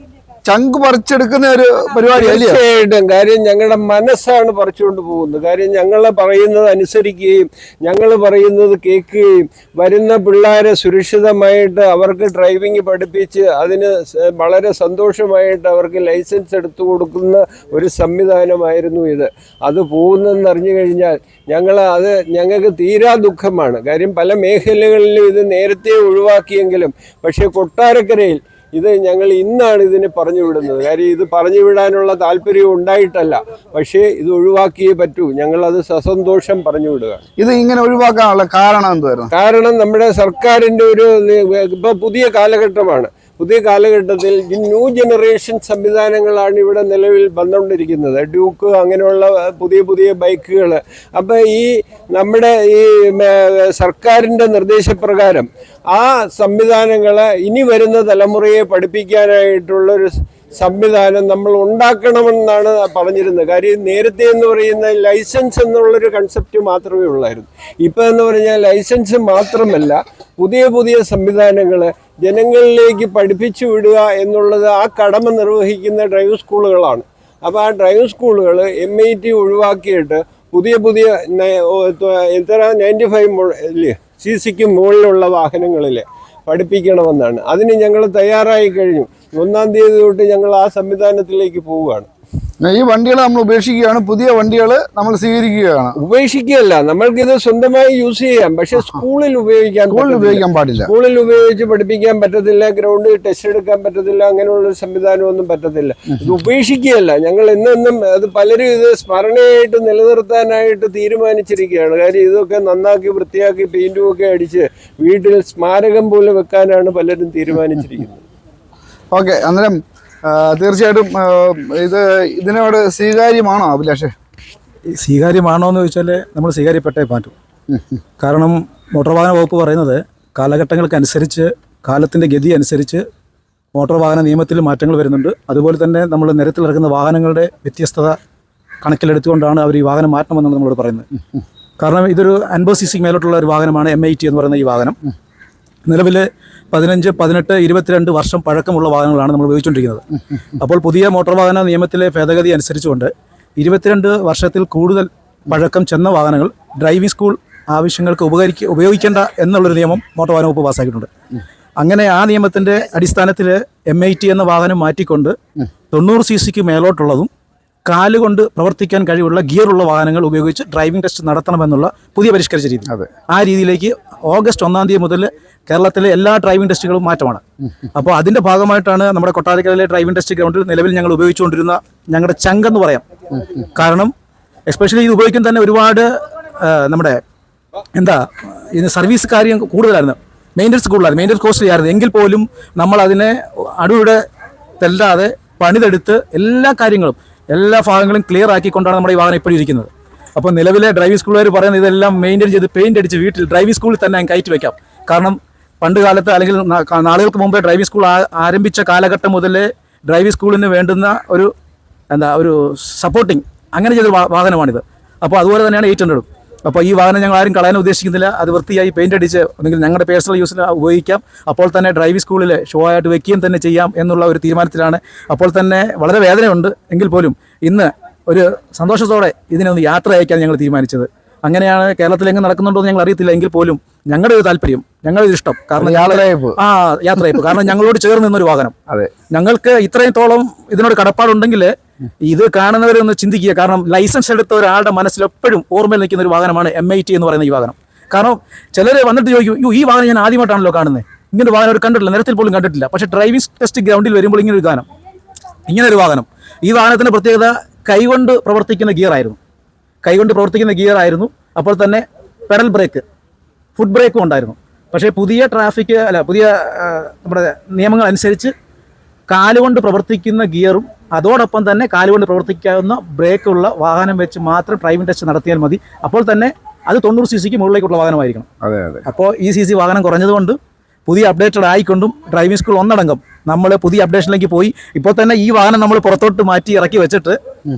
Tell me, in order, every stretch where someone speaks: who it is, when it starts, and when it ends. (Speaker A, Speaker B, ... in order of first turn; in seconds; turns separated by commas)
Speaker A: 0.5-2.6, Speaker B: 2.1-37.2, Speaker A: 37.4-39.3, Speaker B: 39.3-92.1, Speaker A: 92.6-96.0, Speaker B: 96.0-118.2, Speaker A: 99.9-100.9, Speaker A: 119.1-124.1, Speaker C: 124.9-127.3, Speaker A: 127.7-128.0, Speaker C: 128.2-133.0, Speaker C: 133.7-138.2, Speaker C: 138.8-141.1, Speaker C: 141.8-145.0, Speaker C: 145.9-150.0, Speaker C: 150.6-161.1, Speaker C: 161.8-165.3, Speaker C: 165.9-167.3, Speaker C: 167.9-177.4, Speaker C: 177.9-183.0, Speaker C: 183.8-184.1, Speaker C: 184.7-186.1, Speaker C: 186.6-187.2, Speaker C: 187.9-188.2, Speaker C: 188.7-194.2, Speaker C: 194.8-211.5, Speaker C: 212.1-238.7, Speaker A: 235.8-236.6, Speaker A: 238.9-239.1, Speaker C: 239.3-254.8, Speaker C: 255.7-259.4, Speaker C: 260.0-263.0, Speaker C: 263.8-268.5, Speaker C: 269.3-278.5, Speaker A: 278.6-279.0, Speaker C: 279.1-287.4